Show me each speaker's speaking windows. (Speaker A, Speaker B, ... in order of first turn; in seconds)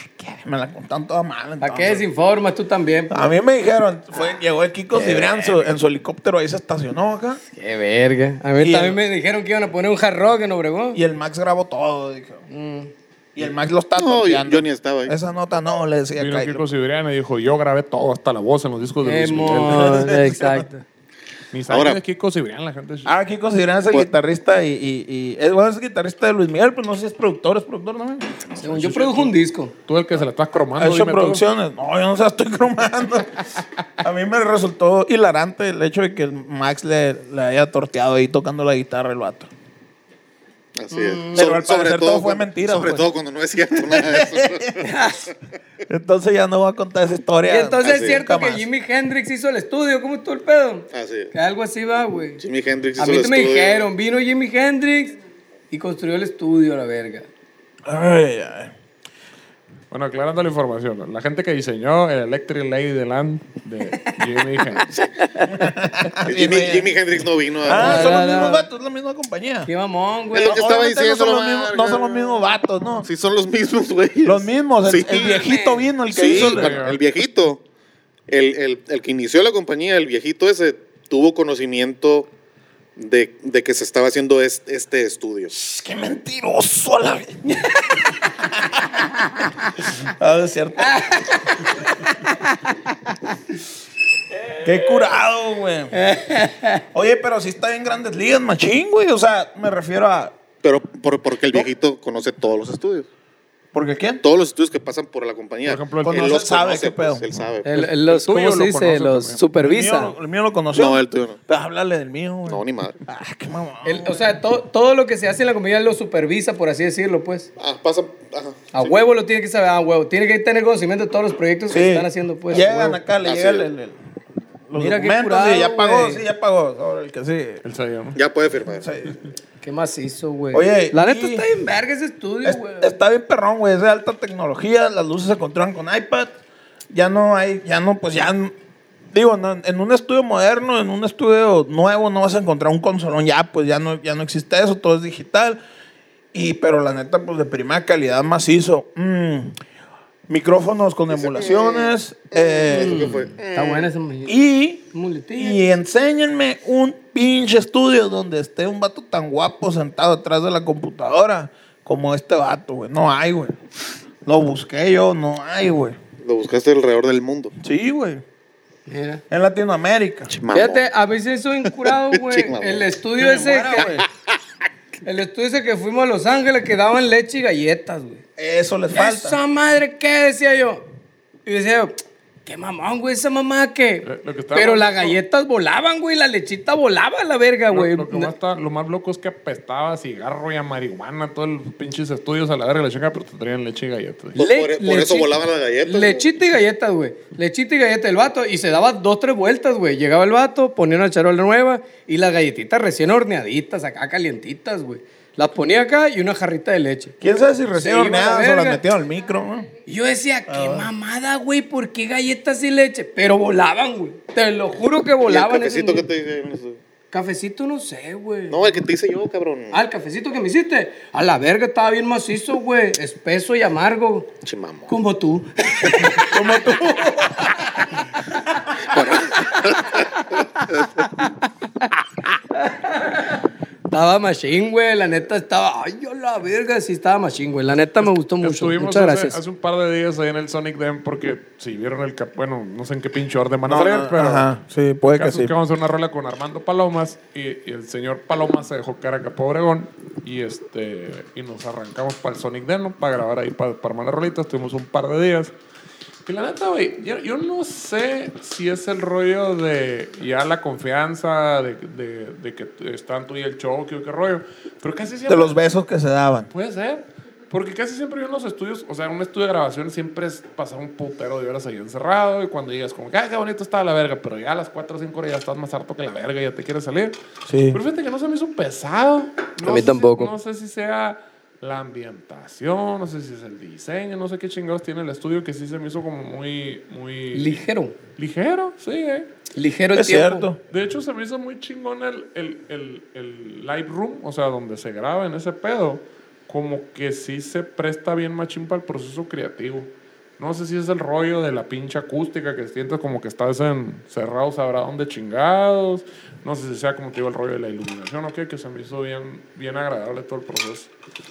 Speaker A: 0.2-2.1, 3.1-7.4, 8.6-9.0, 10.9-12.4, 13.3-16.6, 19.7-20.7, 23.1-28.4, 30.8-33.5, 34.0-39.5, 41.3-44.8, 45.9-48.7, 57.9-58.7, 65.5-66.9, 67.6-69.7, 70.4-73.1, 74.2-76.9, 85.5-89.1, 89.8-91.4, 94.6-96.0, 96.9-100.3, 103.7-104.2, 106.0-107.2, 109.6-114.1, 121.7-124.0, 124.7-127.6, 128.8-129.2, 130.5-131.5, 132.4-136.3, 136.9-138.5, 139.1-145.6, 146.3-149.6, 150.3-153.2, 154.3-154.8, 155.4-163.6, 164.2-166.0, 167.6-168.2, 169.3-170.3, 173.2-174.1, 178.4-179.4, 207.2-209.7, 210.5-210.9, 226.2-227.7, 243.7-245.5, 265.3-266.5, 277.5-277.8, 289.9-290.6
Speaker B: 1.6-3.3, 5.0-5.5, 7.5-11.0, 12.5-12.9, 19.0-20.8, 28.6-29.7, 40.9-41.4, 44.8-45.3, 47.5-52.4, 53.0-55.2, 55.7-57.3, 65.3-65.7, 67.7-68.7, 69.7-70.7, 75.1-75.9, 90.8-93.1, 95.9-96.8, 107.7-110.2, 113.8-117.5, 118.7-123.0, 124.8-126.2, 129.6-132.9, 152.7-154.4, 154.9-155.7, 168.9-169.2, 170.5-173.9, 175.1-178.2, 178.9-180.8, 181.5-188.3, 194.4-207.2, 207.7-208.8, 209.9-216.1, 217.1-218.7, 219.7-224.3, 224.9-226.4, 228.9-230.4, 232.6-239.4, 279.6-280.3, 287.3-288.0, 289.6-290.5
Speaker C: 14.0-15.2, 21.7-22.0, 40.8-44.9, 47.8-48.2, 50.9-51.3, 52.4-53.9, 66.2-68.3, 70.3-72.3, 73.0-75.4, 76.1-77.6, 78.3-82.3, 83.0-85.5, 100.6-103.1, 104.2-107.9, 110.7-111.4, 112.5-113.0, 117.6-119.0, 123.2-123.7, 128.2-128.9, 151.1-153.9, 166.2-167.5, 170.3-170.9, 171.7-172.9, 173.8-174.0, 194.4-196.3, 215.2-216.8, 218.5-219.8, 224.4-224.9, 228.9-231.1
Speaker D: 16.2-20.1, 21.5-23.1, 28.6-29.3, 29.9-31.4, 59.9-64.9, 76.2-77.0, 105.6-106.4, 108.1-109.4, 127.6-128.2, 184.0-185.2, 187.7-194.4, 238.3-244.5, 245.1-255.5, 256.3-265.6, 266.5-277.2, 277.7-287.6, 288.2-289.3, 290.7-310.9